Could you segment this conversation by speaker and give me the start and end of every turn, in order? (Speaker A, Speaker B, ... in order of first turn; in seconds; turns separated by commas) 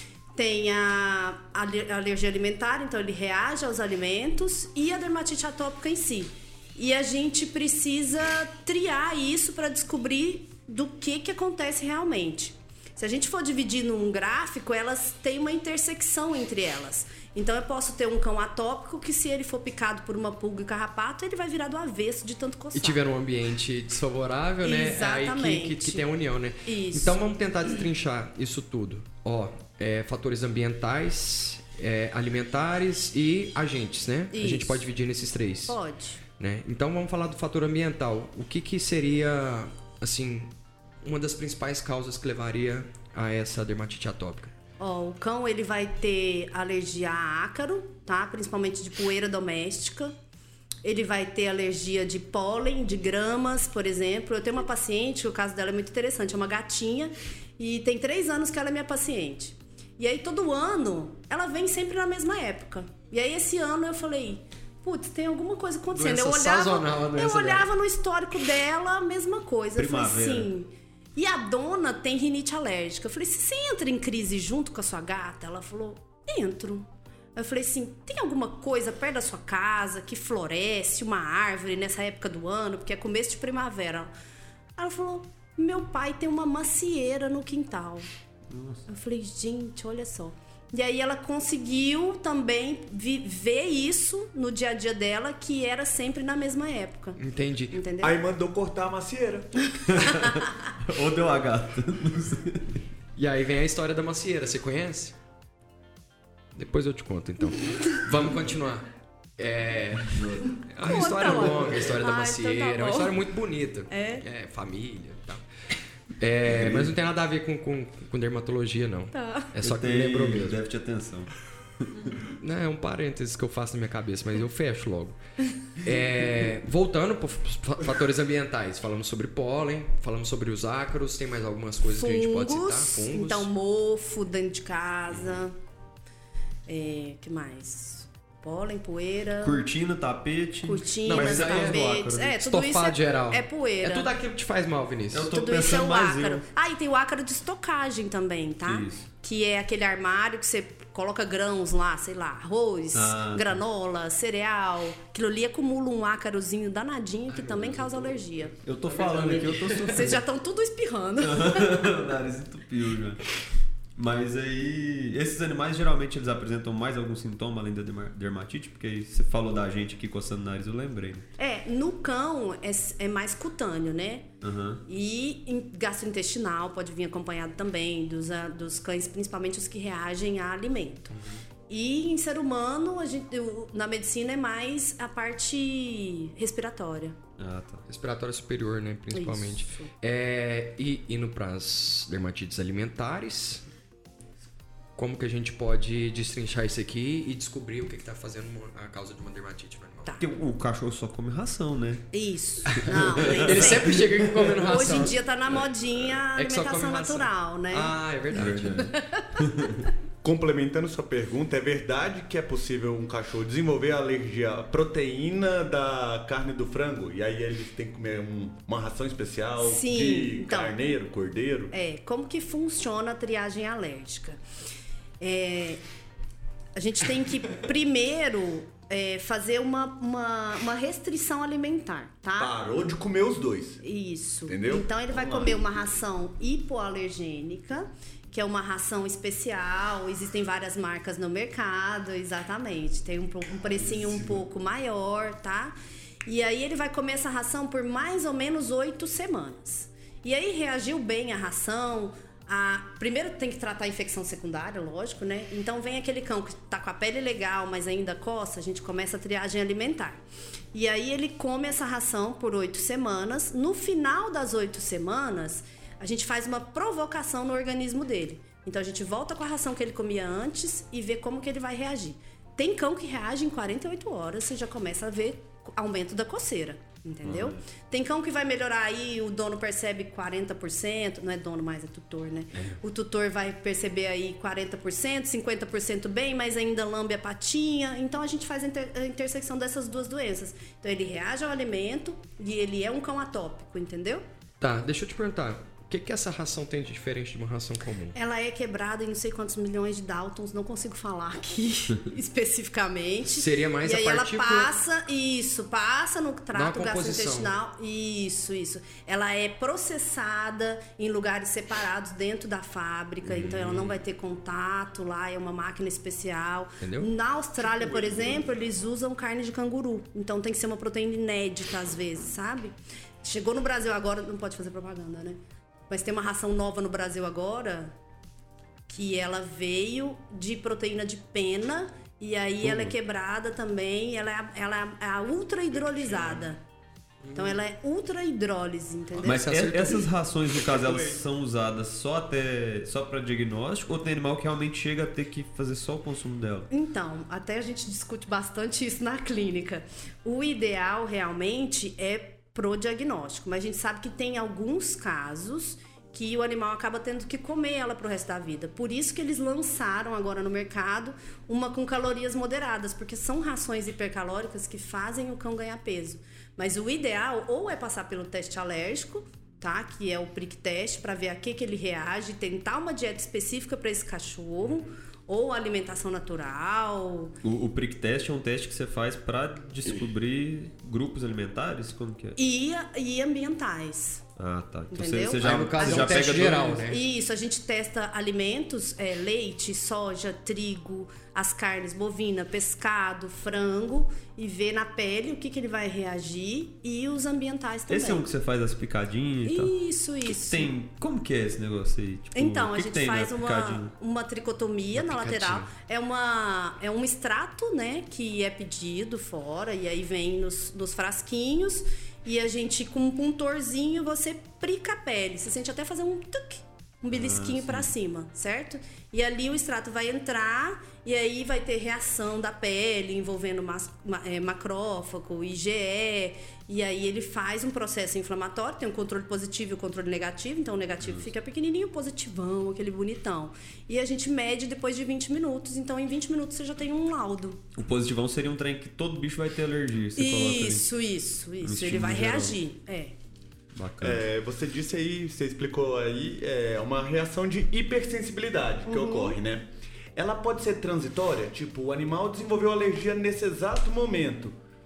Speaker A: 0.3-23.0, Speaker B: 22.7-35.8, Speaker A: 24.6-26.0, Speaker A: 26.7-27.2, Speaker A: 34.3-34.9, Speaker A: 35.7-36.2, Speaker B: 36.4-40.5, Speaker B: 41.0-44.5, Speaker A: 44.8-50.1, Speaker A: 50.8-84.1, Speaker B: 65.9-67.7, Speaker C: 69.8-70.5, Speaker A: 84.8-88.1, Speaker C: 88.5-88.8, Speaker A: 88.9-97.2, Speaker B: 97.2-97.8, Speaker A: 97.7-98.2, Speaker D: 98.0-99.7, Speaker C: 99.9-102.8, Speaker A: 100.1-100.3, Speaker B: 103.2-105.2, Speaker B: 106.5-115.4, Speaker C: 110.1-110.5, Speaker A: 110.8-113.2, Speaker A: 113.9-114.2, Speaker B: 116.2-120.6, Speaker C: 116.5-116.9, Speaker A: 119.1-119.5, Speaker C: 119.6-121.3, Speaker C: 121.8-122.2, Speaker B: 122.4-125.2, Speaker B: 125.8-133.5, Speaker A: 131.9-135.6, Speaker A: 136.7-139.6, Speaker C: 139.4-142.4, Speaker A: 140.6-144.1, Speaker B: 141.1-141.8, Speaker B: 142.4-145.3, Speaker C: 145.1-146.5, Speaker A: 145.3-158.6, Speaker C: 148.6-149.1, Speaker C: 152.9-153.6, Speaker B: 157.4-158.1, Speaker C: 158.5-160.2, Speaker B: 158.9-160.2, Speaker A: 159.8-162.1, Speaker C: 161.2-163.2, Speaker C: 164.0-171.2, Speaker A: 171.4-174.3, Speaker C: 174.4-174.8, Speaker A: 174.9-181.1, Speaker B: 181.1-181.4, Speaker A: 181.7-187.2, Speaker C: 187.4-187.8, Speaker B: 187.9-193.6, Speaker A: 189.1-189.9, Speaker B: 195.0-200.1, Speaker C: 200.2-202.1, Speaker A: 202.1-204.1, Speaker B: 202.8-205.2, Speaker C: 202.8-204.7, Speaker A: 204.7-207.9, Speaker B: 206.3-208.8, Speaker C: 208.3-209.8, Speaker A: 208.7-209.4, Speaker D: 210.2-221.7, Speaker A: 219.6-220.9, Speaker A: 221.7-224.4, Speaker A: 225.2-225.8, Speaker A: 226.8-232.5, Speaker D: 232.4-233.8, Speaker A: 233.8-245.7, Speaker D: 234.5-235.6, Speaker D: 243.8-244.4, Speaker A: 246.3-294.2, Speaker C: 277.2-277.6, Speaker B: 294.6-298.1, Speaker A: 298.1-327.9, Speaker B: 303.4-304.7, Speaker B: 306.5-307.5, Speaker B: 313.3-313.9, Speaker B: 316.8-317.1, Speaker D: 317.6-318.5, Speaker A: 328.9-336.6, Speaker B: 337.2-337.6, Speaker A: 337.4-339.4, Speaker B: 339.1-340.1, Speaker C: 339.2-346.7, Speaker D: 340.7-341.2, Speaker A: 346.7-377.4, Speaker C: 377.4-382.4, Speaker A: 382.4-384.2, Speaker C: 384.4-386.9, Speaker A: 384.9-398.3, Speaker B: 385.4-387.0, Speaker C: 397.9-399.8, Speaker A: 399.4-400.7, Speaker C: 400.3-403.9, Speaker A: 402.4-437.6, Speaker B: 404.9-405.7, Speaker C: 417.1-417.9, Speaker C: 431.0-431.3, Speaker C: 437.8-440.9, Speaker A: 440.2-443.1, Speaker C: 441.6-442.6, Speaker C: 443.7-444.3, Speaker D: 444.0-454.6, Speaker A: 448.9-449.4